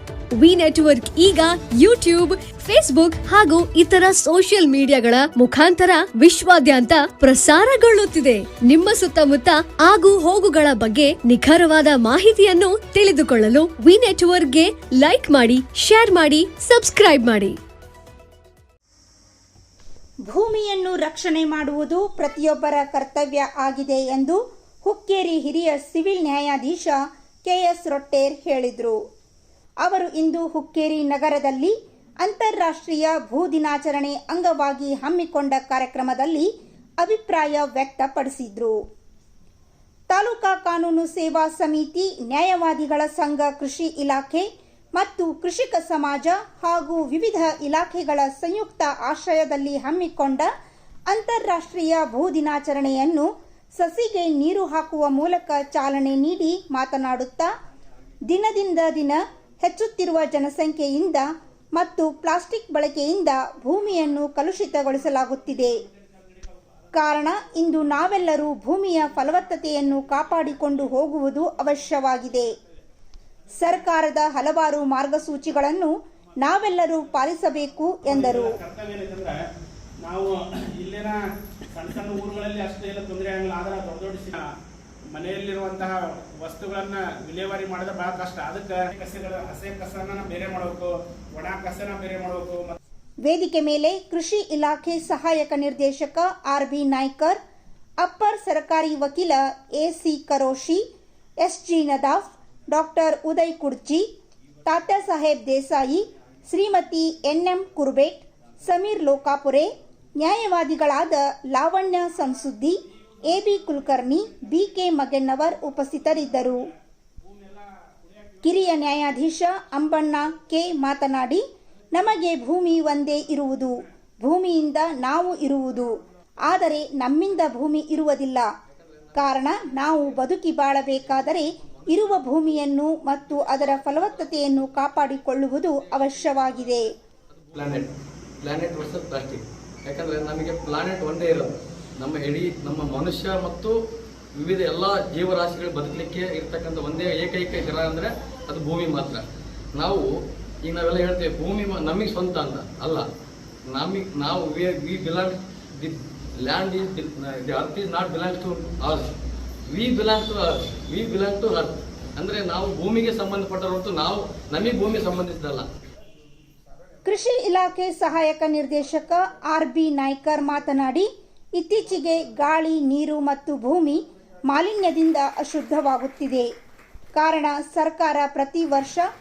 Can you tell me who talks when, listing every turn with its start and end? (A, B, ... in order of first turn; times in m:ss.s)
0:00.4-0:17.6 A
0:20.3-0:29.0 B
0:29.8-0:36.5 B
0:37.0-0:38.8 B
0:40.1-0:50.5 B
0:51.1-0:57.5 B
0:58.3-1:05.8 B
1:05.2-1:07.0 C
1:06.9-1:12.5 B
1:09.5-1:10.7 C
1:13.6-1:18.6 B
1:18.0-1:19.4 C
1:20.0-1:21.2 C
1:21.7-1:24.4 C
1:25.1-1:32.8 C
1:33.2-1:37.4 B
1:38.0-1:40.8 B
1:41.4-1:44.0 B
1:44.6-1:56.7 B
1:53.2-1:54.7 C
1:56.3-1:59.2 C
1:58.4-2:08.5 B
2:02.0-2:03.7 C
2:08.7-2:12.5 D
2:09.1-2:16.9 B
2:13.2-2:23.8 D
2:24.4-2:30.0 D
2:30.6-2:33.1 D
2:33.7-2:39.1 D
2:39.7-2:45.7 D
2:47.0-2:56.5 B
2:57.1-2:59.0 B